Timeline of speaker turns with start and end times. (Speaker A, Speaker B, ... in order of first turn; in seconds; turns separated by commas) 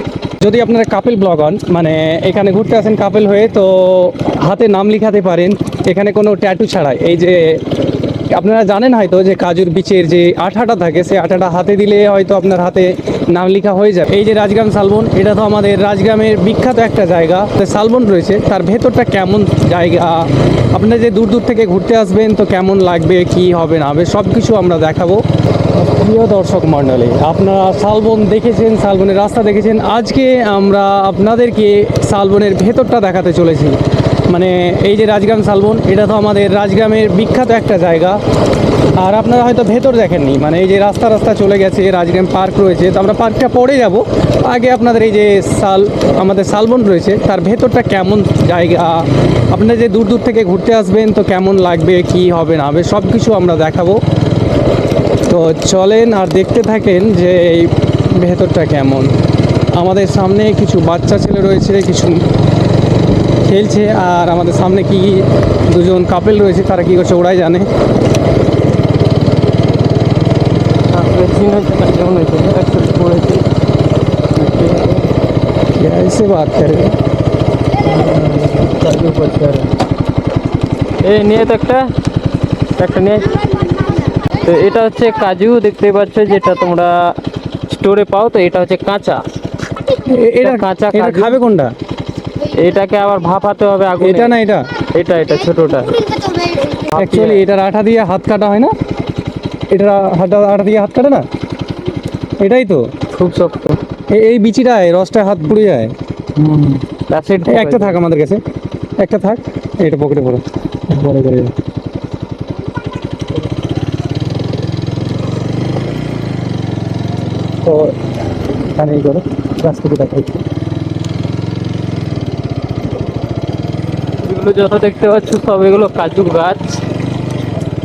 Speaker A: 0.4-7.7, Speaker A: 8.3-33.8, Speaker A: 34.3-38.2, Speaker A: 39.0-54.0, Speaker A: 55.3-59.1, Speaker A: 59.7-62.2, Speaker A: 63.4-67.7, Speaker B: 70.9-73.5, Speaker B: 74.3-75.1, Speaker A: 75.8-76.9, Speaker B: 77.8-79.7, Speaker B: 81.0-81.8, Speaker B: 82.8-83.6, Speaker B: 84.3-89.2, Speaker A: 90.0-91.7, Speaker B: 90.4-91.4, Speaker B: 92.4-94.4, Speaker A: 94.0-94.6, Speaker B: 94.9-97.4, Speaker A: 97.0-98.7, Speaker A: 99.7-101.2, Speaker A: 102.4-102.9, Speaker B: 103.1-103.8, Speaker A: 104.1-105.9, Speaker B: 106.3-108.0, Speaker A: 107.5-108.4, Speaker A: 109.0-111.5, Speaker A: 117.7-117.9, Speaker A: 118.7-120.4, Speaker B: 124.2-126.8